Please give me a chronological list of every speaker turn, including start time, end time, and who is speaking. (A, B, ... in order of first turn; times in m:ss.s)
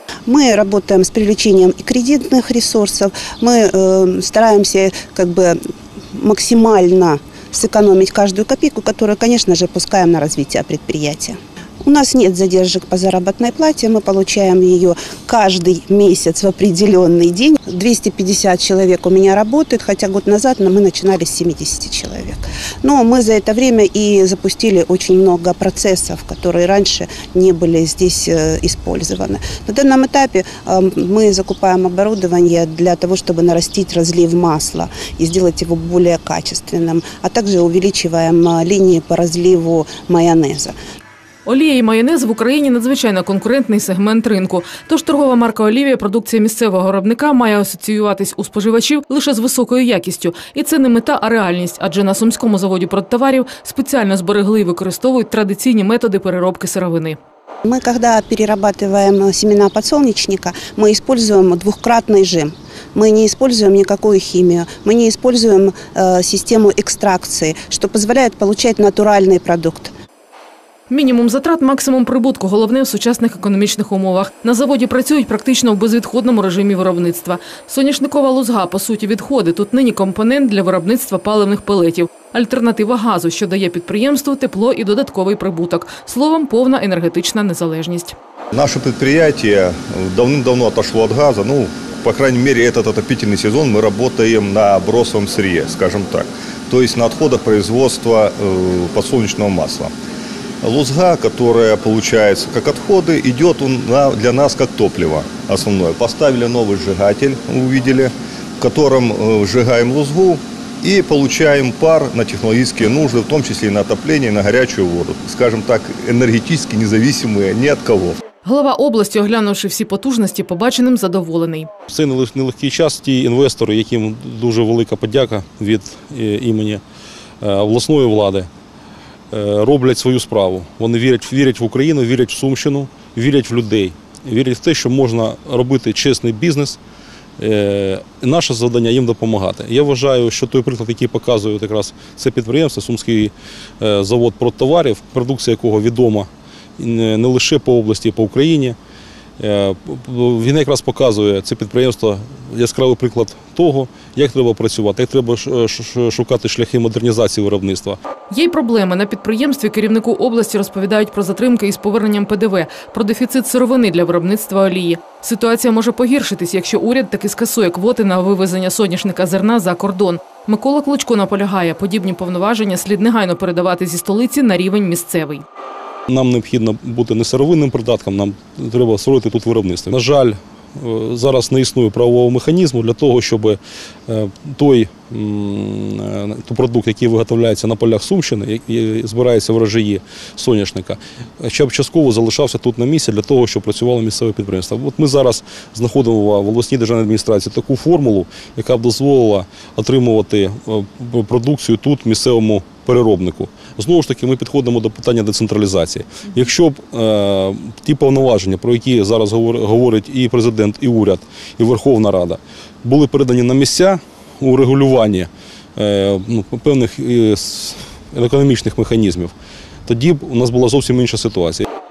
0:00.3-0:05.6 A
0:06.1-0:40.7 A
0:41.4-0:57.2 B
0:57.6-1:09.9 A
1:10.9-1:28.2 B
1:28.5-1:39.9 C
1:40.6-1:58.2 C
1:58.4-2:01.7 B
2:01.9-2:06.8 D
2:07.4-2:08.5 D
2:09.3-2:16.8 D
2:17.4-2:28.8 D
2:29.4-2:38.0 D
2:38.3-2:55.4 B
2:56.1-3:39.3 D
3:39.8-3:41.6 D